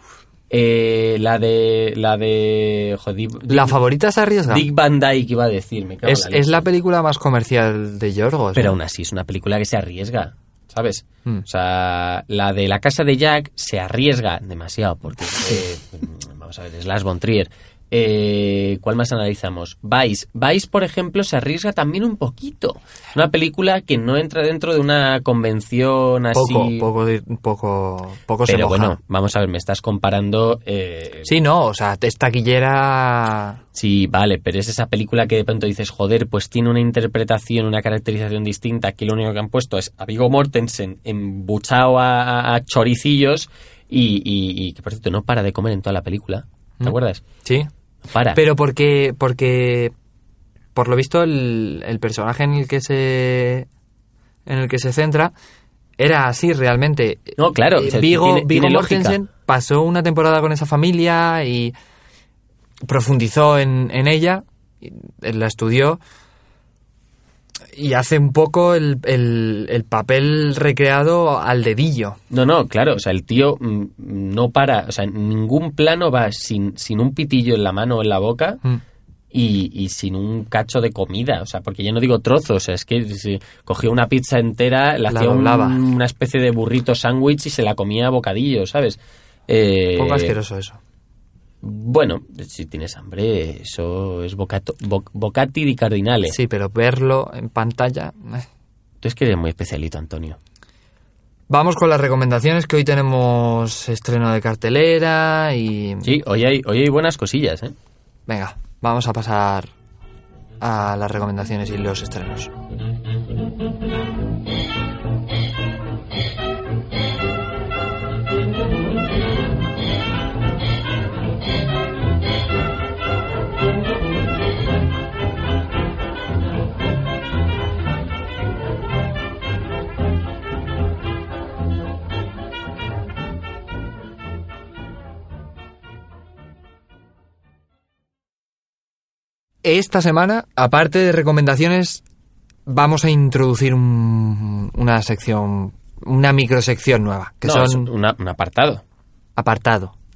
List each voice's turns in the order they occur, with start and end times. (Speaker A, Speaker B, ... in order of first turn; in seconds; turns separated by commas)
Speaker A: 0.5-3.7, Speaker B: 3.5-4.7, Speaker A: 4.5-6.6, Speaker B: 6.0-8.8, Speaker A: 8.5-26.9, Speaker B: 26.3-29.0, Speaker A: 28.5-31.3, Speaker B: 31.2-33.6, Speaker A: 33.7-47.2, Speaker B: 46.8-47.7, Speaker A: 48.1-48.4, Speaker B: 48.3-49.9, Speaker B: 50.7-53.7, Speaker B: 54.5-55.3, Speaker B: 56.0-61.7, Speaker A: 57.4-59.2, Speaker B: 62.9-66.0, Speaker B: 67.7-72.2, Speaker A: 72.3-78.6, Speaker A: 79.3-90.3, Speaker B: 85.1-85.8, Speaker B: 90.0-90.8, Speaker A: 91.6-96.3, Speaker B: 96.3-98.5, Speaker A: 99.0-100.4, Speaker B: 101.5-106.1, Speaker A: 106.0-107.7, Speaker B: 108.3-109.7, Speaker B: 110.6-112.5, Speaker B: 139.6-142.0, Speaker B: 142.7-147.9, Speaker A: 147.4-148.8, Speaker B: 149.4-149.9